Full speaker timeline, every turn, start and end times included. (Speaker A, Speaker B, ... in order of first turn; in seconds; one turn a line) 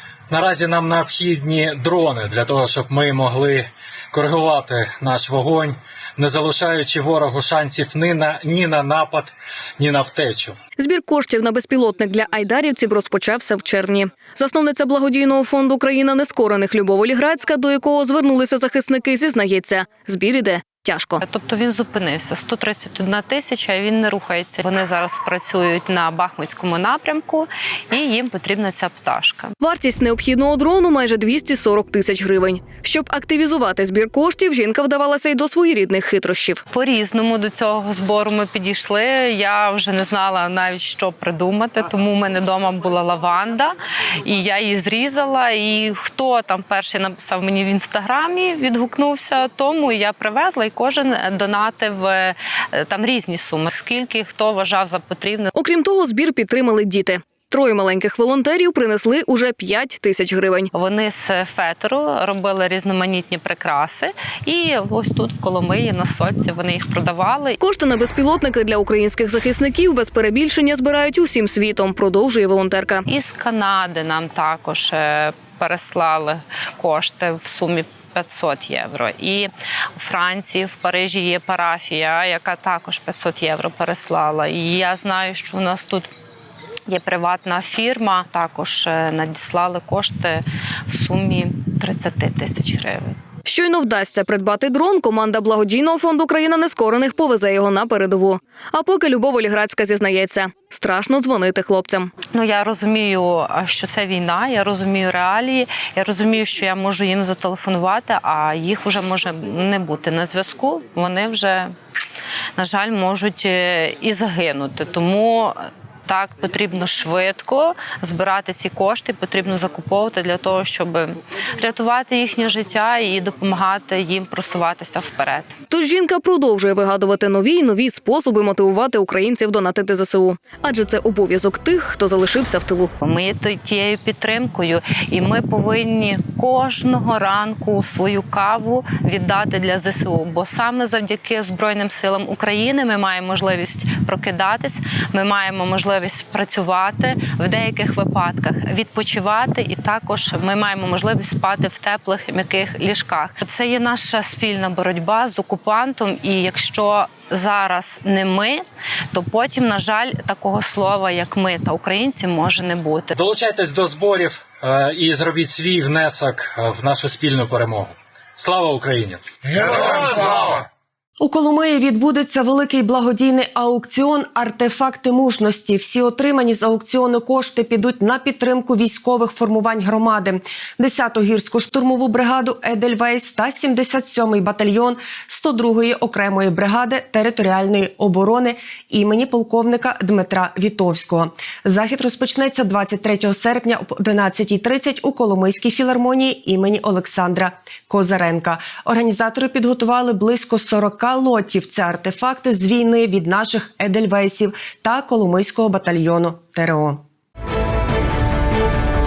Speaker A: 0.3-10.6
Speaker B: 10.8-21.2
Speaker C: 21.2-29.5
Speaker B: 29.6-36.6
Speaker C: 36.7-55.5
Speaker B: 55.6-60.6
Speaker C: 60.7-67.6
Speaker B: 67.6-73.0
Speaker C: 73.1-86.1
Speaker C: 86.9-93.2
Speaker B: 93.5-102.0
Speaker C: 102.3-111.7
Speaker C: 112.5-125.5
Speaker B: 125.7-132.9
Speaker C: 133.0-163.2
Speaker A: 163.2-169.2
Speaker D: 171.2-207.0